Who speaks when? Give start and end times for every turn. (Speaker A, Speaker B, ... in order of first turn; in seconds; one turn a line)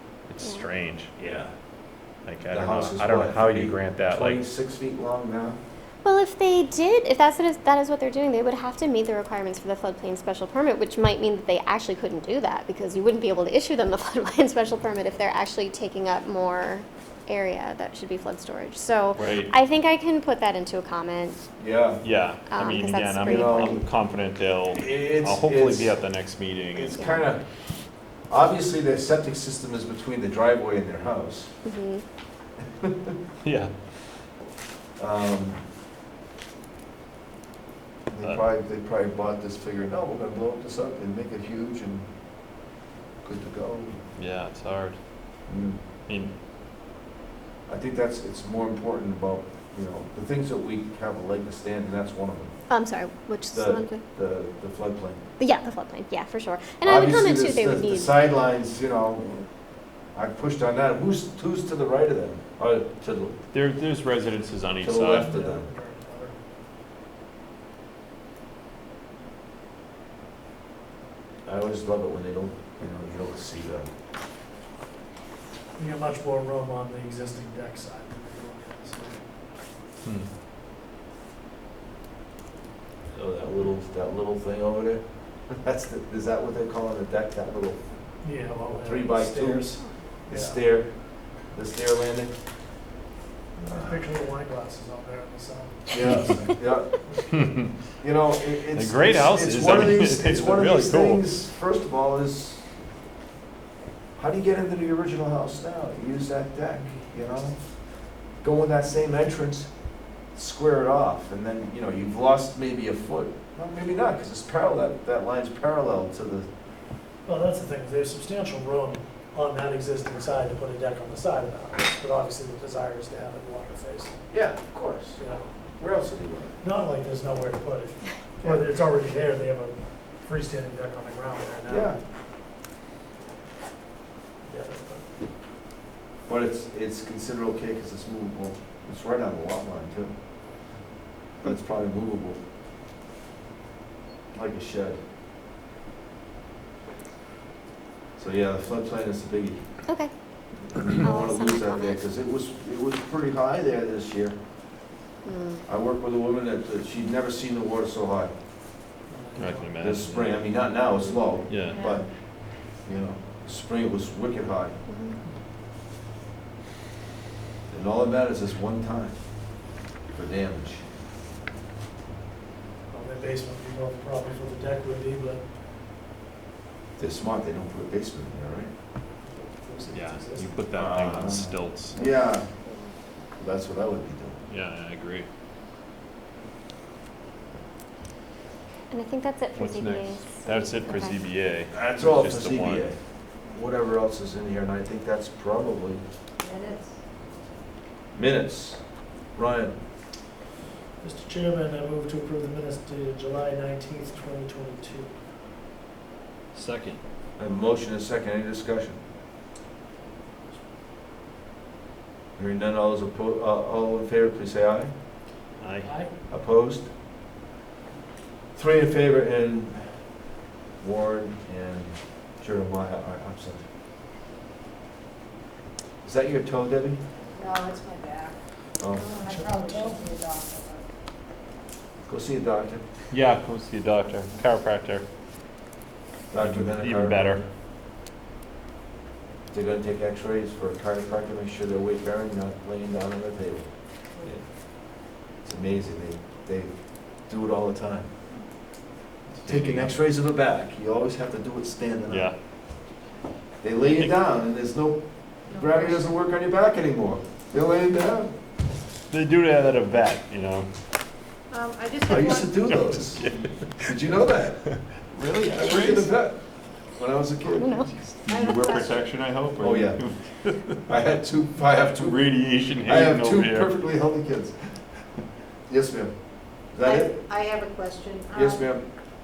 Speaker A: 0.3-1.1
Speaker B: 0.4-0.7
Speaker C: 1.2-1.5
Speaker A: 2.2-4.4
Speaker C: 2.5-5.6
Speaker B: 6.0-21.5
Speaker A: 19.1-19.5
Speaker C: 21.6-22.0
Speaker A: 22.0-27.0
Speaker B: 22.5-23.8
Speaker C: 23.2-23.8
Speaker C: 24.7-25.9
Speaker C: 26.7-27.4
Speaker B: 27.0-27.2
Speaker C: 28.3-31.5
Speaker B: 31.6-32.0
Speaker C: 32.8-33.1
Speaker A: 33.4-33.7
Speaker C: 35.0-35.6
Speaker C: 38.1-42.1
Speaker C: 43.2-44.0
Speaker A: 44.1-45.0
Speaker C: 45.5-45.8
Speaker A: 46.1-46.3
Speaker C: 47.7-52.5
Speaker B: 52.7-54.0
Speaker C: 53.5-55.2
Speaker B: 55.4-58.1
Speaker C: 56.8-59.4
Speaker C: 60.1-63.4
Speaker A: 63.5-65.3
Speaker C: 64.8-65.7
Speaker D: 65.1-66.4
Speaker C: 71.5-73.9
Speaker D: 75.8-79.2
Speaker C: 83.1-85.0
Speaker C: 85.6-87.8
Speaker D: 88.2-89.7
Speaker C: 88.7-92.3
Speaker D: 90.3-90.6
Speaker C: 93.6-94.0
Speaker D: 93.7-97.2
Speaker C: 95.9-97.0
Speaker A: 97.4-97.7
Speaker C: 98.0-102.6
Speaker A: 98.7-101.2
Speaker C: 104.2-107.6
Speaker C: 108.4-109.7
Speaker C: 110.3-116.5
Speaker D: 117.2-124.3
Speaker C: 124.3-125.2
Speaker D: 125.2-125.4
Speaker C: 125.8-126.6
Speaker D: 126.6-131.9
Speaker C: 131.7-132.0
Speaker D: 134.4-135.0
Speaker C: 136.3-140.1
Speaker C: 141.4-142.4
Speaker C: 144.3-145.0
Speaker C: 148.2-149.6
Speaker C: 150.7-154.3
Speaker B: 151.0-152.0
Speaker B: 155.2-155.6
Speaker C: 155.7-158.3
Speaker D: 159.1-159.8
Speaker A: 159.4-160.5
Speaker C: 159.8-162.1
Speaker A: 161.5-161.8
Speaker E: 161.7-162.0
Speaker C: 162.7-164.8
Speaker B: 164.9-165.2
Speaker C: 167.7-169.2
Speaker C: 170.1-170.8
Speaker D: 172.9-175.4
Speaker C: 177.0-178.7
Speaker D: 179.2-180.6
Speaker A: 179.9-182.0
Speaker C: 180.7-182.5
Speaker B: 182.7-182.9
Speaker C: 183.4-184.4
Speaker A: 184.5-185.3
Speaker B: 188.9-191.2
Speaker A: 189.5-192.9
Speaker C: 191.7-192.9
Speaker C: 193.5-196.0
Speaker E: 196.4-196.9
Speaker C: 198.1-198.8
Speaker C: 199.3-199.8
Speaker D: 201.0-205.1
Speaker A: 206.5-207.0
Speaker C: 207.4-209.0
Speaker C: 212.3-214.9
Speaker A: 215.6-215.9
Speaker D: 215.8-216.1
Speaker C: 216.3-216.9
Speaker C: 218.5-219.9
Speaker C: 220.8-223.6
Speaker C: 226.0-227.0
Speaker E: 227.3-228.4
Speaker C: 228.8-229.1
Speaker E: 229.0-230.8
Speaker D: 229.1-230.1
Speaker C: 232.1-232.8
Speaker A: 233.1-235.0
Speaker C: 236.3-237.4
Speaker A: 236.4-237.4
Speaker C: 239.5-243.7
Speaker C: 245.4-246.7
Speaker C: 247.2-248.1
Speaker A: 249.3-249.9
Speaker C: 249.4-252.3
Speaker A: 252.1-252.3
Speaker C: 253.6-258.3
Speaker E: 255.5-256.0
Speaker A: 259.1-260.7
Speaker E: 261.5-263.3
Speaker C: 262.0-263.2
Speaker A: 262.2-263.8
Speaker C: 263.9-264.7
Speaker A: 265.0-266.1
Speaker C: 265.5-266.4
Speaker C: 266.9-267.9
Speaker B: 267.5-267.9
Speaker A: 268.2-270.8
Speaker E: 268.3-269.1
Speaker C: 269.6-270.0
Speaker C: 270.9-272.3
Speaker A: 271.9-273.7
Speaker C: 272.8-274.5
Speaker C: 275.7-277.2
Speaker E: 276.8-278.7
Speaker C: 278.3-278.8